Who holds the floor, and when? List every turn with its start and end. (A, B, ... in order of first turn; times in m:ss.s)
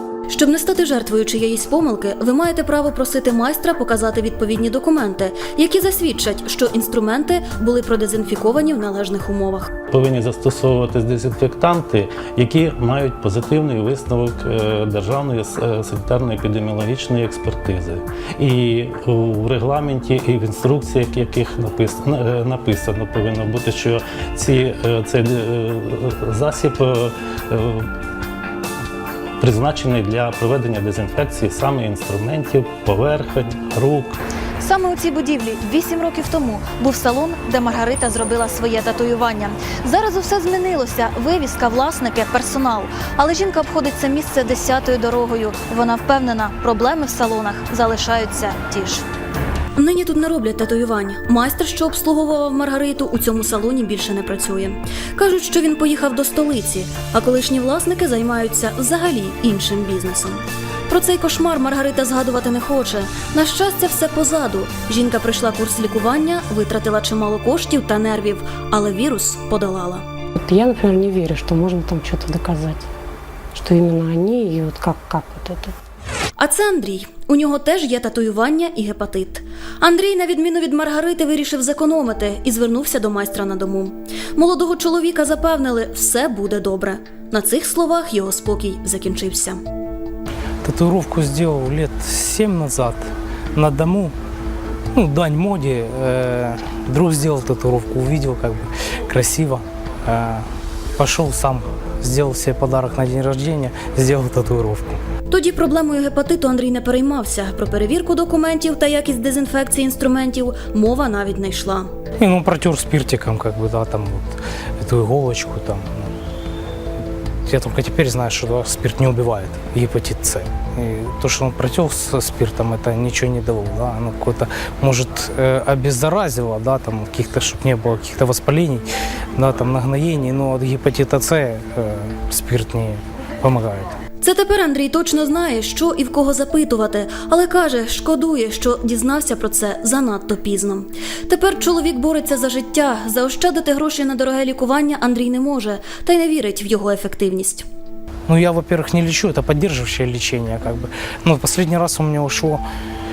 0:00.3-0:09.7 A
0:09.9-0:27.9 B
0:29.4-0:34.2 B
0:34.6-0:49.0 C
0:49.8-1:10.0 A
1:10.4-1:12.9 D
1:13.5-1:15.7 D
1:16.4-1:29.6 A
1:30.6-1:34.1 E
1:35.0-1:40.5 E
1:41.0-1:45.0 E
1:45.3-1:51.9 A
1:52.2-1:56.1 E
1:57.5-2:13.9 E
2:14.2-2:27.7 A
2:28.3-2:32.6 E